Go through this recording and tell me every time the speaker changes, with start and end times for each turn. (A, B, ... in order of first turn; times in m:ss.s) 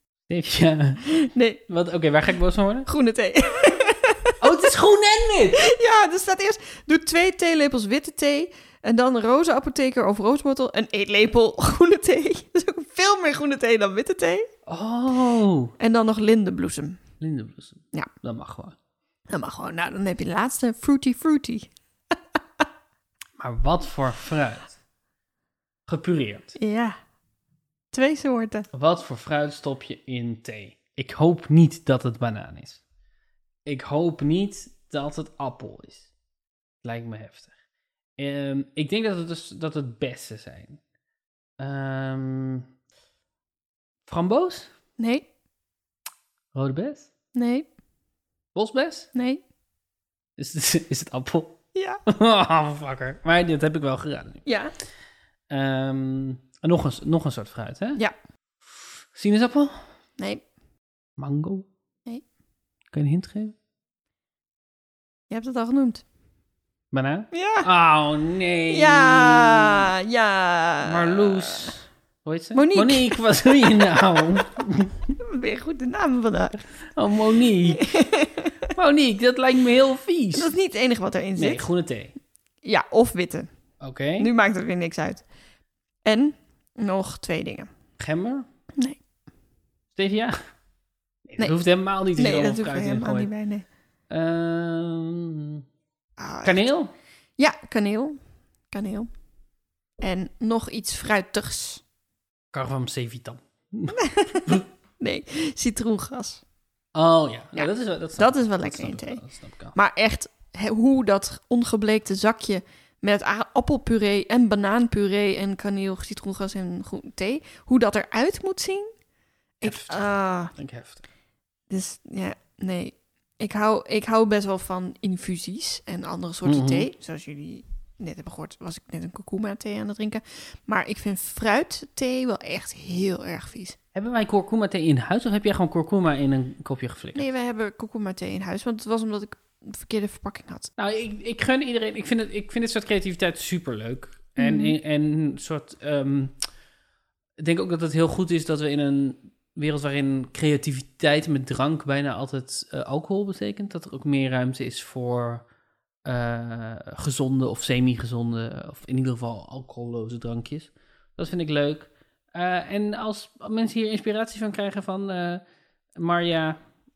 0:00.3-0:02.9 A
0:01.1-0:01.6 B
0:02.8-0:04.6 B
0:04.4-0:05.7 A
0:05.6-0:14.5 B
0:14.6-0:15.7 A
0:15.8-0:17.0 B
0:17.2-0:18.8 A
0:19.3-0:21.7 B
0:23.4-0:24.8 A
0:25.9-0:26.5 A
0:26.6-0:27.0 B
0:27.9-0:28.7 B
0:28.7-0:32.8 A
0:33.6-0:36.1 A
0:36.8-0:37.5 A
0:38.2-0:40.8 A
0:41.6-0:42.7 A
0:44.1-0:44.7 A
0:45.0-0:45.3 B
0:46.5-0:47.1 A
0:47.3-0:47.7 B
0:48.5-0:49.1 A
0:49.1-0:49.4 B
0:50.4-0:54.4 A
0:51.7-0:52.0 B
0:54.4-0:54.7 B
0:55.5-0:58.0 A
0:58.6-0:59.9 A
1:00.2-1:00.4 B
1:01.2-1:01.7 A
1:02.9-1:03.5 A
1:05.3-1:06.0 B
1:06.9-1:09.9 A
1:07.3-1:07.7 B
1:08.7-1:11.8 B
1:10.8-1:15.1 A
1:12.5-1:14.2 B
1:15.2-1:16.6 B
1:16.9-1:18.0 A
1:17.7-1:18.7 B
1:18.7-1:20.5 A
1:20.3-1:21.6 B
1:21.4-1:22.1 A
1:22.6-1:23.5 B
1:23.8-1:24.3 A
1:24.2-1:25.2 B
1:26.0-1:27.7 B
1:28.0-1:28.4 A
1:29.9-1:30.4 A
1:31.2-1:33.3 A
1:32.1-1:33.6 B
1:34.1-1:35.6 A
1:36.2-1:36.7 B
1:36.4-1:36.9 A
1:37.4-1:38.2 B
1:38.7-1:39.1 B
1:40.0-1:41.8 B
1:42.5-1:44.6 A
1:43.9-1:46.4 B
1:46.9-1:49.7 A
1:47.5-1:49.2 B
1:49.7-1:58.9 B
1:59.6-2:00.5 B
1:59.6-2:01.0 A
2:01.7-2:13.8 B
2:06.4-2:06.9 A
2:13.9-2:17.2 A
2:17.1-2:20.7 B
2:20.8-2:26.4 A
2:24.4-2:24.7 B
2:27.4-2:35.4 A
2:36.0-2:45.4 A
2:45.9-2:46.6 A